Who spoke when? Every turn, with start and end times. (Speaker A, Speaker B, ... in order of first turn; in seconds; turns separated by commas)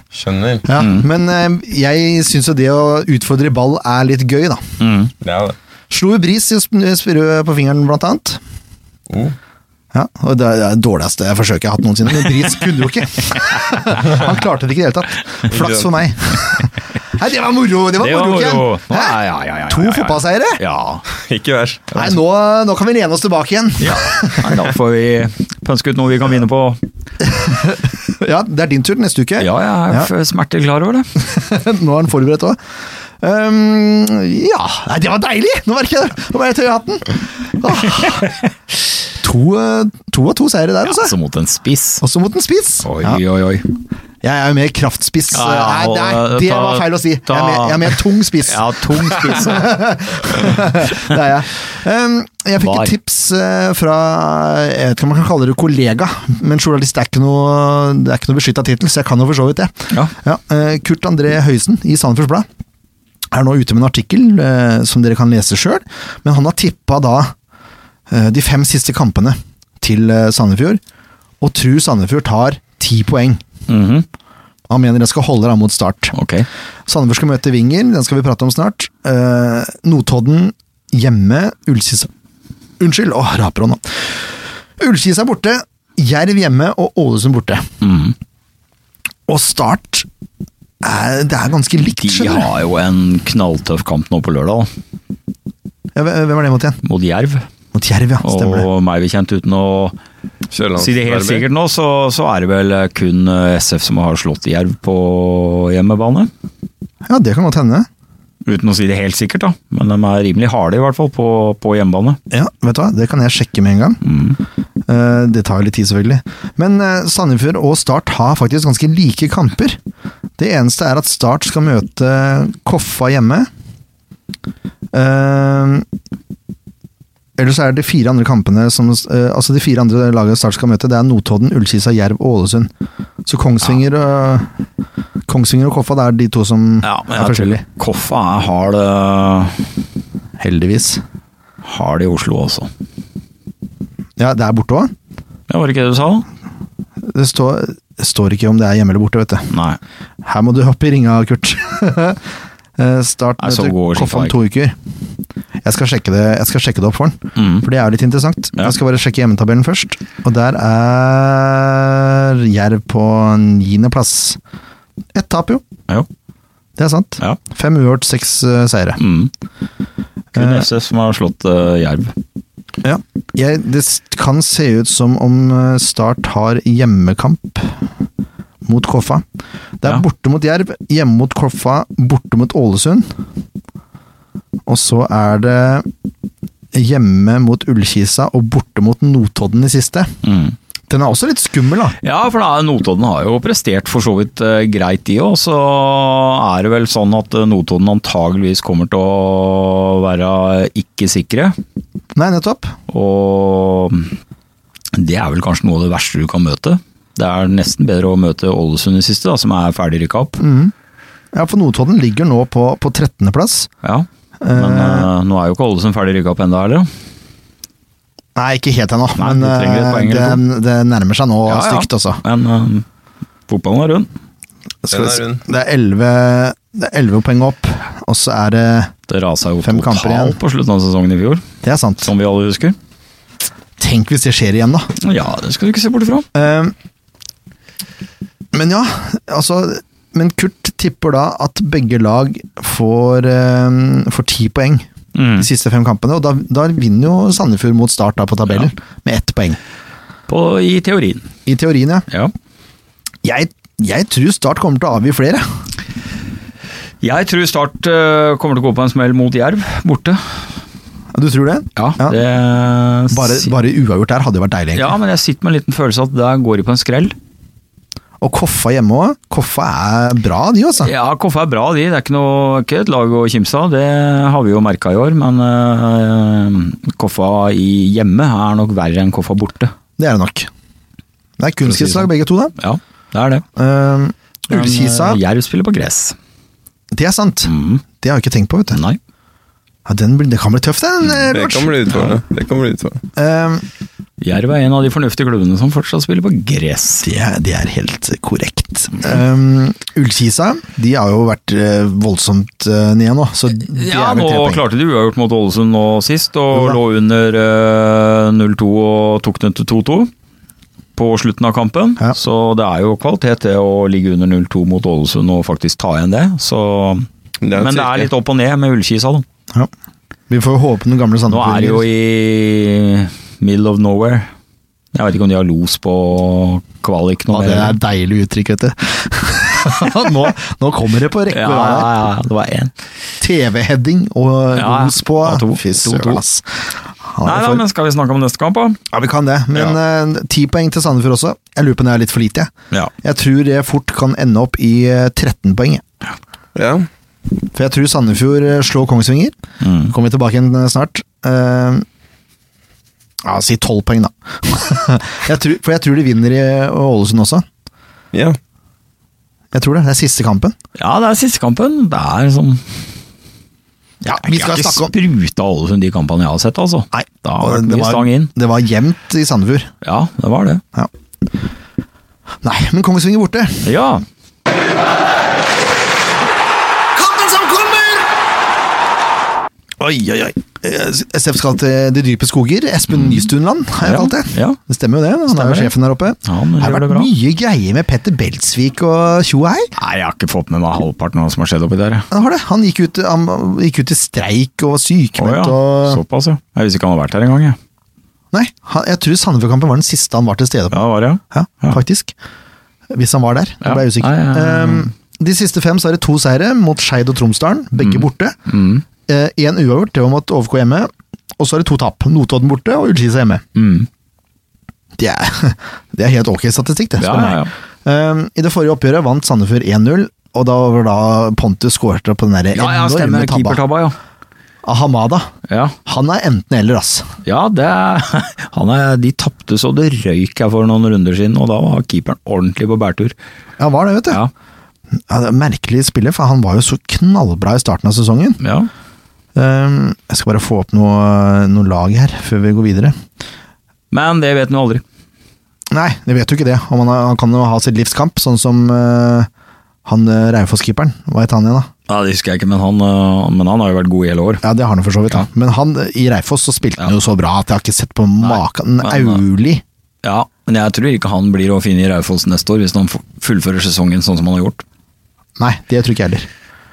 Speaker A: 0.1-0.7, Speaker B: 0.7-4.6, Speaker C: 0.8-1.1, Speaker C: 4.8-5.1, Speaker A: 5.2-5.6, Speaker B: 5.9-8.4, Speaker A: 9.1-9.3, Speaker B: 9.9-20.6, Speaker A: 15.5-15.9, Speaker C: 18.0-21.1, Speaker A: 21.1-21.9, Speaker B: 21.9-24.5, Speaker C: 23.8-26.8, Speaker B: 27.3-30.1, Speaker C: 29.4-31.1, Speaker B: 31.2-32.6, Speaker B: 33.2-38.4, Speaker B: 39.2-41.1, Speaker C: 40.8-42.0, Speaker B: 42.0-43.2, Speaker C: 42.8-43.6, Speaker B: 44.2-62.5, Speaker C: 45.3-50.8, Speaker C: 52.6-52.9, Speaker B: 63.3-67.3, Speaker B: 68.1-70.8, Speaker B: 71.4-73.4, Speaker C: 73.7-74.0, Speaker B: 74.7-76.1, Speaker C: 76.1-76.5, Speaker B: 76.9-82.1, Speaker B: 82.8-84.2, Speaker B: 84.8-87.7, Speaker C: 87.8-88.1, Speaker B: 89.3-90.1, Speaker B: 90.8-92.5, Speaker C: 92.0-94.7, Speaker B: 96.0-96.8, Speaker C: 96.8-97.5, Speaker B: 97.7-98.7, Speaker C: 98.2-100.0, Speaker A: 100.5-101.5, Speaker C: 100.8-106.3, Speaker B: 107.0-107.9, Speaker C: 108.5-112.2, Speaker B: 112.3-114.0, Speaker C: 114.0-114.4, Speaker B: 114.9-119.8, Speaker B: 120.4-123.5, Speaker B: 124.9-125.8, Speaker B: 127.4-132.7, Speaker B: 133.3-134.5, Speaker B: 135.3-137.6, Speaker C: 136.8-139.7, Speaker B: 140.4-141.0, Speaker C: 141.6-142.7, Speaker B: 144.2-144.9, Speaker C: 145.5-146.2, Speaker B: 147.0-149.5, Speaker C: 149.5-149.8, Speaker B: 150.2-152.2, Speaker B: 152.8-154.8, Speaker C: 153.4-154.3, Speaker B: 155.6-164.4, Speaker C: 157.3-157.7, Speaker B: 165.1-165.6, Speaker B: 166.8-169.0, Speaker C: 169.0-169.3, Speaker C: 170.3-172.1, Speaker B: 170.3-170.7, Speaker B: 172.8-177.8, Speaker B: 178.6-179.2, Speaker B: 179.8-183.1, Speaker B: 184.7-185.9, Speaker B: 186.7-190.1, Speaker C: 190.2-190.6, Speaker B: 190.9-191.9, Speaker C: 192.0-201.6, Speaker B: 202.1-202.7, Speaker C: 202.9-204.1, Speaker C: 204.9-210.4, Speaker B: 210.4-210.7, Speaker B: 211.3-213.7, Speaker C: 213.8-216.9, Speaker B: 214.4-215.1, Speaker B: 218.3-222.2, Speaker C: 219.2-220.4, Speaker C: 221.5-222.8, Speaker C: 223.5-224.1, Speaker B: 224.8-228.9, Speaker A: 224.9-225.4, Speaker C: 229.1-231.4, Speaker B: 229.6-230.4, Speaker B: 231.6-232.1, Speaker C: 232.0-232.8, Speaker B: 233.8-234.9, Speaker C: 235.0-236.2, Speaker B: 236.3-236.7, Speaker B: 238.5-249.6, Speaker C: 245.1-245.5, Speaker C: 250.3-251.3, Speaker B: 251.4-252.1, Speaker B: 253.2-255.4, Speaker C: 257.0-260.4, Speaker B: 261.1-262.2, Speaker C: 261.8-263.5, Speaker B: 263.1-264.9, Speaker C: 264.7-267.1, Speaker B: 268.2-270.9, Speaker C: 270.8-279.7, Speaker B: 280.0-280.5, Speaker B: 281.4-282.5, Speaker C: 281.6-283.4, Speaker B: 283.6-285.2, Speaker C: 284.5-286.1, Speaker B: 286.9-288.8, Speaker C: 287.5-287.8, Speaker C: 288.7-289.0, Speaker B: 289.9-291.9, Speaker A: 291.3-293.0, Speaker B: 293.1-293.6, Speaker C: 294.2-297.1, Speaker B: 297.0-304.6, Speaker C: 303.6-310.1, Speaker B: 306.5-306.8, Speaker C: 311.0-319.2, Speaker A: 317.4-318.1, Speaker B: 320.3-321.8, Speaker C: 321.3-324.3, Speaker C: 324.9-327.8, Speaker B: 327.3-331.9, Speaker C: 331.3-332.7, Speaker B: 333.2-336.5, Speaker C: 334.6-336.2, Speaker B: 337.1-337.6, Speaker C: 337.2-338.8, Speaker B: 338.9-345.8, Speaker A: 346.6-346.9, Speaker B: 347.5-351.8, Speaker C: 349.6-349.9, Speaker B: 353.2-357.4, Speaker A: 358.1-358.4, Speaker B: 359.5-360.5, Speaker C: 360.8-362.7, Speaker B: 364.0-364.9, Speaker C: 364.2-368.3, Speaker B: 366.9-369.7, Speaker C: 369.8-370.6, Speaker B: 372.4-373.7, Speaker C: 373.6-374.0, Speaker B: 376.9-378.1, Speaker B: 379.8-389.7, Speaker C: 382.9-384.6, Speaker C: 385.3-385.7, Speaker C: 386.2-387.1, Speaker C: 389.8-392.1, Speaker B: 392.1-396.0, Speaker C: 395.2-397.6, Speaker B: 398.3-400.8, Speaker C: 400.7-401.8, Speaker B: 401.3-402.1, Speaker B: 402.9-408.4, Speaker C: 403.6-404.9, Speaker C: 407.8-408.8, Speaker B: 409.1-413.4, Speaker C: 413.5-413.9, Speaker B: 415.0-423.6, Speaker C: 417.0-417.5, Speaker C: 422.5-423.9, Speaker B: 424.6-425.3, Speaker C: 425.5-425.7, Speaker B: 425.8-427.1, Speaker C: 427.2-433.1, Speaker B: 433.6-434.2, Speaker B: 435.1-438.4, Speaker C: 438.4-438.7, Speaker B: 439.4-442.9, Speaker C: 443.9-444.8, Speaker B: 445.7-449.3, Speaker B: 449.8-451.7, Speaker C: 451.9-454.4, Speaker B: 454.4-459.6, Speaker C: 458.2-459.2, Speaker C: 460.0-464.6, Speaker B: 465.4-466.3